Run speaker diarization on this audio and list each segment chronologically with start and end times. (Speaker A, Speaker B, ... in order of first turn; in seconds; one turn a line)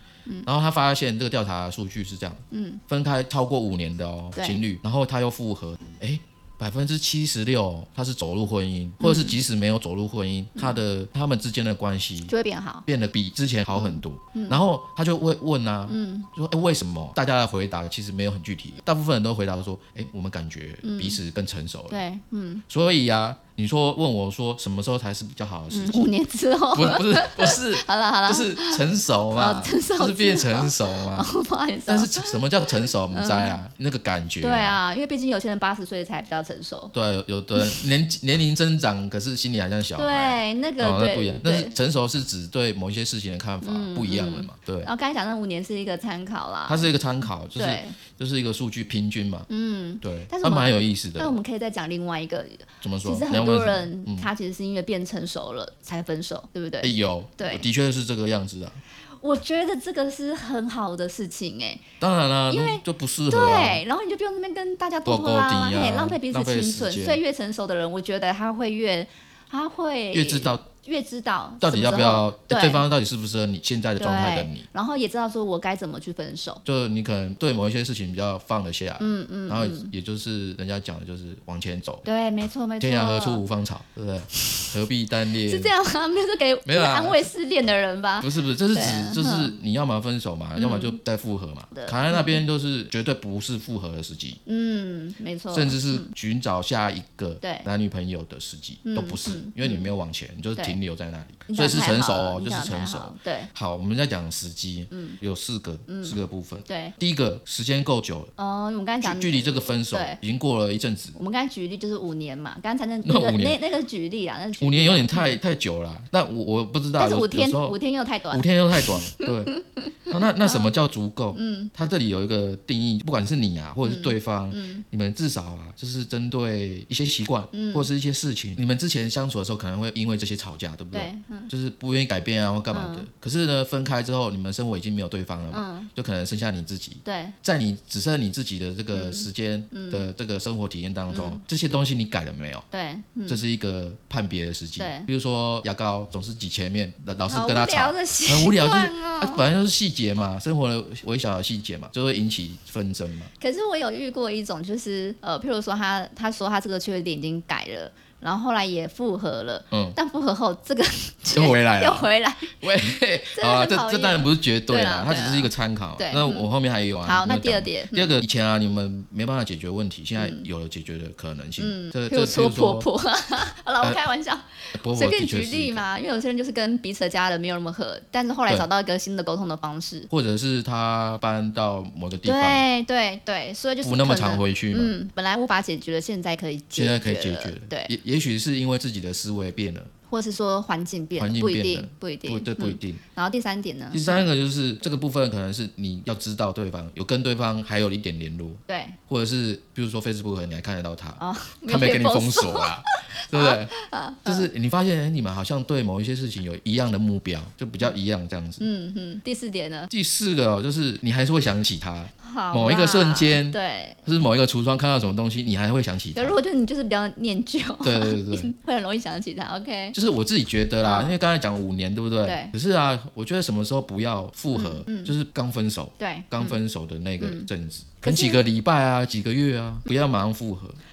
Speaker A: 0.4-12.3
Speaker B: 2.5-2.8
Speaker B: 9.0-9.3
Speaker B: 12.3-12.8
Speaker A: 12.8-22.0
Speaker B: 13.7-14.6
Speaker B: 15.9-16.3
Speaker B: 20.8-21.2
Speaker B: 21.9-22.6
Speaker A: 22.7-26.1
Speaker B: 25.7-33.6
Speaker A: 26.7-31.3
Speaker A: 31.9-34.8
Speaker B: 34.4-36.9
Speaker A: 36.9-44.9
Speaker B: 37.5-37.8
Speaker B: 40.0-41.7
Speaker B: 43.6-46.9
Speaker A: 46.7-49.5
Speaker B: 47.6-48.0
Speaker B: 49.5-57.6
Speaker A: 50.0-51.4
Speaker A: 52.8-54.3
Speaker A: 56.8-58.8
Speaker B: 59.2-61.8
Speaker A: 62.0-63.8
Speaker B: 62.5-72.8
Speaker A: 65.0-67.2
Speaker A: 70.1-70.6
Speaker A: 71.6-74.6
Speaker B: 74.0-76.6
Speaker A: 76.6-82.0
Speaker B: 79.0-79.9
Speaker B: 82.0-83.4
Speaker A: 82.8-85.7
Speaker B: 84.3-84.7
Speaker B: 85.4-89.5
Speaker A: 86.6-87.2
Speaker A: 88.2-94.4
Speaker B: 90.5-91.0
Speaker B: 91.7-92.4
Speaker B: 94.5-96.1
Speaker A: 95.5-108.3
Speaker B: 97.4-97.7
Speaker B: 98.8-99.9
Speaker B: 101.5-103.5
Speaker B: 104.9-105.2
Speaker B: 105.9-107.0
Speaker B: 108.4-110.2
Speaker A: 109.0-111.2
Speaker B: 111.2-115.4
Speaker A: 113.0-113.6
Speaker A: 114.6-117.8
Speaker B: 117.0-120.7
Speaker A: 118.3-119.5
Speaker A: 120.1-142.7
Speaker B: 121.3-121.7
Speaker B: 123.8-124.8
Speaker B: 127.5-127.9
Speaker B: 130.9-131.5
Speaker B: 132.7-133.1
Speaker B: 135.5-135.9
Speaker B: 137.0-137.3
Speaker B: 138.9-140.1
Speaker B: 141.1-141.4
Speaker B: 142.7-143.4
Speaker A: 143.3-153.3
Speaker B: 144.8-145.1
Speaker B: 147.3-149.5
Speaker B: 153.4-162.5
Speaker A: 159.7-160.0
Speaker A: 161.3-172.9
Speaker B: 163.3-166.5
Speaker B: 167.0-168.1
Speaker B: 170.2-170.4
Speaker B: 171.6-180.1
Speaker A: 174.7-175.8
Speaker A: 180.1-182.6
Speaker B: 182.2-187.9
Speaker A: 183.8-184.9
Speaker A: 186.7-189.9
Speaker B: 190.1-194.2
Speaker A: 191.2-193.0
Speaker A: 193.9-203.7
Speaker B: 198.7-199.0
Speaker B: 201.2-204.5
Speaker A: 204.2-208.6
Speaker B: 208.6-209.9
Speaker A: 209.9-216.3
Speaker B: 212.2-214.0
Speaker B: 216.1-219.9
Speaker A: 217.8-218.5
Speaker A: 219.9-230.8
Speaker B: 220.8-221.2
Speaker B: 222.2-222.5
Speaker B: 224.5-225.1
Speaker B: 226.0-226.6
Speaker B: 227.2-227.5
Speaker B: 228.0-228.4